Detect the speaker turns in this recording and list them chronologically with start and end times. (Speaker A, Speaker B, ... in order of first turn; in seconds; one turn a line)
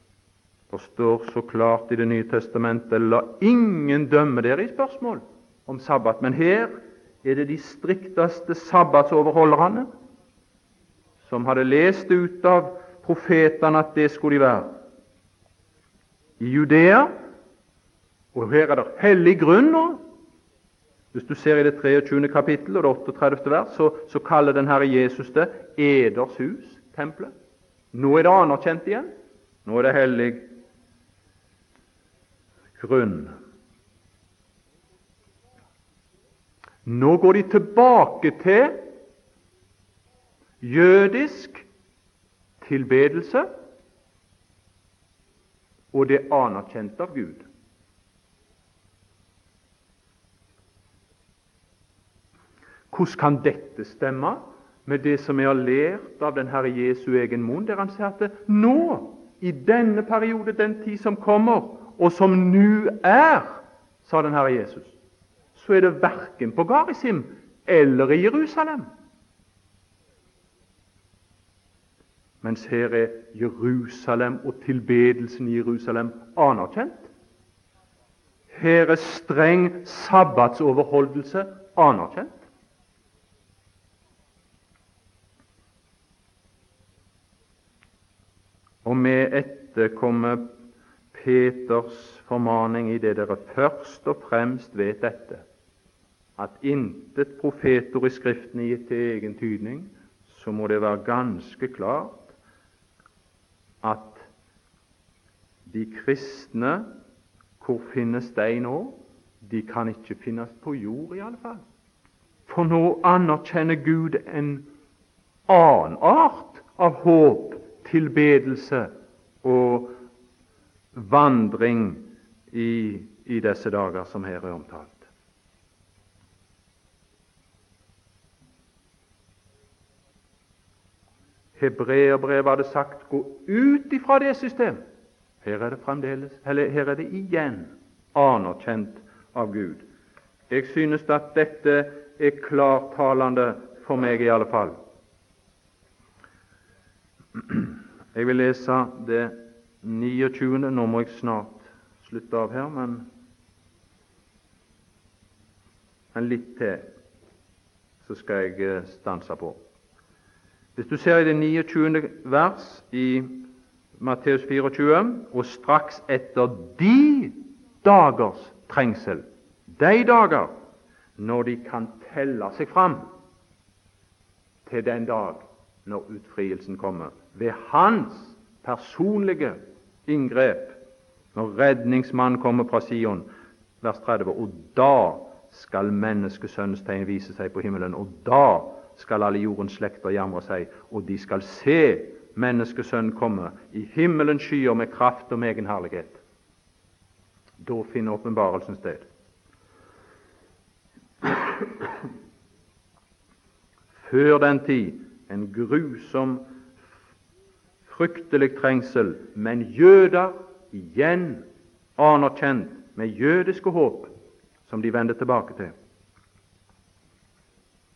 Speaker A: 0.7-9.9
Speaker A: 11.2-14.8
Speaker A: 16.4-17.1
Speaker A: 18.3-20.0
Speaker A: 21.1-27.3
Speaker A: 27.9-29.1
Speaker A: 29.6-30.5
Speaker A: 32.8-33.3
Speaker A: 36.9-38.8
Speaker A: 40.6-41.7
Speaker A: 42.6-43.5
Speaker A: 45.9-47.5
Speaker A: 52.9-65.0
Speaker A: 65.5-68.9
Speaker A: 72.4-77.1
Speaker A: 78.5-82.4
Speaker A: 88.8-90.5
Speaker A: 91.1-95.4
Speaker A: 96.4-102.3
Speaker A: 103.8-104.3
Speaker A: 105.7-107.0
Speaker A: 107.6-111.6
Speaker A: 112.5-114.7
Speaker A: 115.5-118.9
Speaker A: 119.4-120.0
Speaker A: 120.9-125.1
Speaker A: 131.6-134.8
Speaker A: 135.4-139.9
Speaker A: 140.5-144.8
Speaker A: 147.4-153.1
Speaker A: 156.1-156.9
Speaker A: 158.0-159.6
Speaker A: 160.8-163.4
Speaker A: 164.0-170.5
Speaker A: 171.2-173.1
Speaker A: 174.7-180.8
Speaker A: 181.3-183.3
Speaker A: 183.8-196.2
Speaker A: 197.6-199.1
Speaker A: 201.2-201.7
Speaker A: 203.9-206.5
Speaker A: 207.8-211.5
Speaker A: 212.0-214.1
Speaker A: 214.7-215.7